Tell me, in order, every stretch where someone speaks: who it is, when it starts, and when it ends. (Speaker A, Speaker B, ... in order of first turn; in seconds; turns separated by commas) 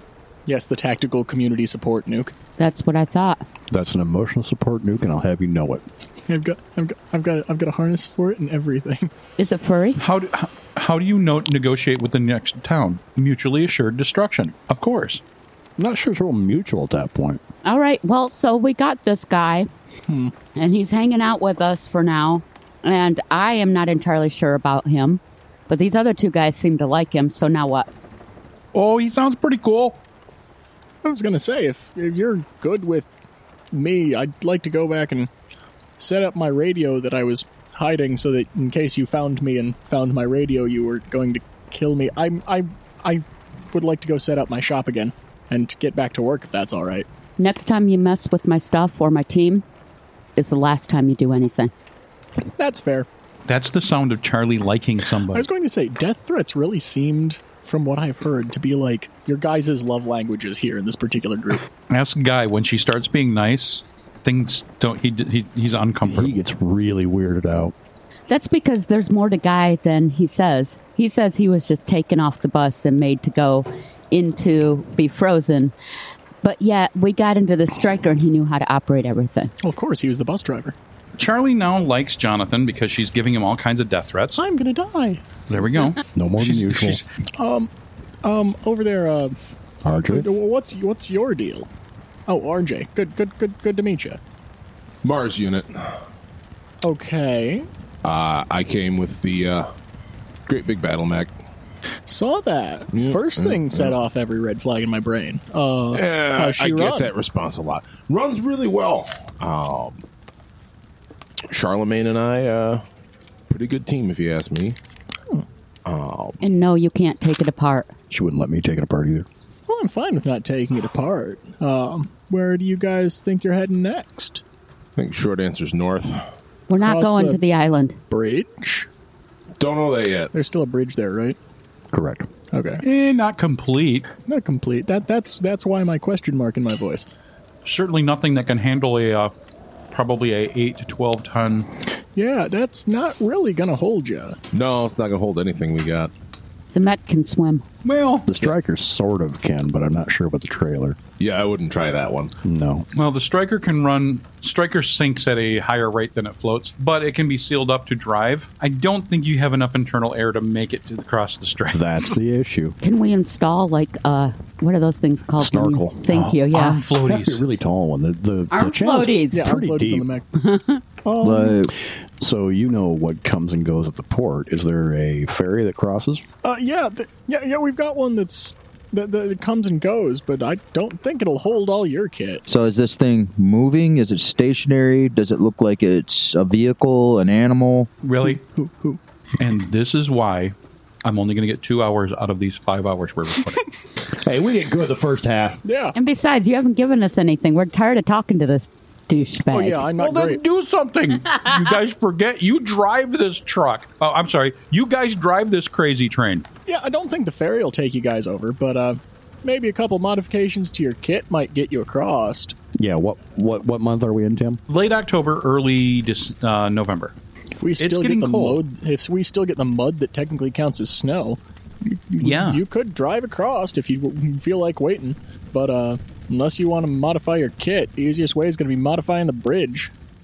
Speaker A: 0.5-2.3, Speaker B: 2.6-3.4, Speaker C: 3.7-5.8, Speaker A: 6.3-9.1, Speaker B: 9.4-10.0, Speaker D: 10.0-15.2, Speaker C: 15.8-17.4, Speaker B: 17.6-19.7, Speaker A: 20.1-20.3, Speaker B: 20.6-27.9, Speaker D: 28.7-30.0, Speaker A: 31.0-33.1, Speaker A: 33.7-35.3, Speaker A: 36.0-47.1, Speaker B: 47.4-49.6, Speaker B: 50.4-51.7, Speaker A: 52.6-53.1, Speaker D: 53.5-55.5, Speaker A: 55.3-61.6, Speaker D: 61.9-66.4, Speaker C: 66.0-67.7, Speaker B: 68.3-75.7, Speaker B: 76.4-79.5, Speaker A: 79.6-80.8, Speaker D: 81.2-84.4, Speaker A: 84.4-85.3, Speaker D: 85.5-87.0, Speaker C: 86.2-87.0, Speaker A: 87.4-87.7, Speaker A: 88.2-89.4, Speaker C: 89.8-90.3, Speaker A: 90.1-91.7, Speaker A: 92.3-94.2, Speaker E: 95.0-96.0, Speaker A: 96.8-97.7, Speaker E: 98.0-99.7, Speaker E: 100.5-101.3, Speaker A: 102.1-107.1, Speaker E: 102.9-103.9, Speaker E: 105.9-110.0, Speaker E: 111.5-112.8, Speaker E: 113.5-114.8, Speaker E: 115.8-116.4, Speaker B: 116.4-117.9, Speaker C: 118.1-119.3, Speaker A: 119.7-124.4, Speaker E: 125.0-126.2, Speaker B: 126.7-128.0, Speaker A: 126.8-127.4, Speaker A: 128.1-128.9, Speaker E: 129.6-130.3, Speaker A: 130.3-131.4, Speaker C: 131.9-132.3, Speaker A: 132.5-132.8, Speaker D: 132.8-134.1, Speaker A: 134.2-137.1, Speaker D: 137.7-139.3, Speaker D: 139.9-141.7, Speaker A: 142.1-144.4, Speaker E: 144.5-146.1, Speaker B: 146.7-147.7, Speaker D: 147.8-148.3, Speaker C: 148.3-151.0, Speaker E: 151.2-152.3, Speaker C: 152.4-152.8, Speaker D: 152.9-162.2, Speaker C: 161.7-162.8, Speaker B: 162.8-166.8, Speaker C: 165.4-166.3, Speaker D: 166.1-167.4, Speaker C: 167.1-170.1, Speaker B: 168.5-169.5, Speaker A: 169.3-170.3, Speaker B: 170.4-170.8, Speaker F: 171.2-171.7, Speaker C: 171.2-176.2, Speaker A: 176.4-182.4, Speaker F: 182.5-187.9, Speaker D: 188.0-188.4, Speaker A: 188.3-189.0, Speaker D: 189.4-193.7, Speaker C: 194.1-195.6, Speaker A: 195.6-196.0, Speaker B: 195.9-199.9, Speaker A: 199.5-200.4, Speaker D: 200.0-206.5, Speaker A: 206.7-212.6, Speaker C: 212.8-214.6, Speaker D: 214.7-217.2, Speaker A: 217.6-229.9, Speaker D: 217.8-218.6, Speaker D: 222.2-222.6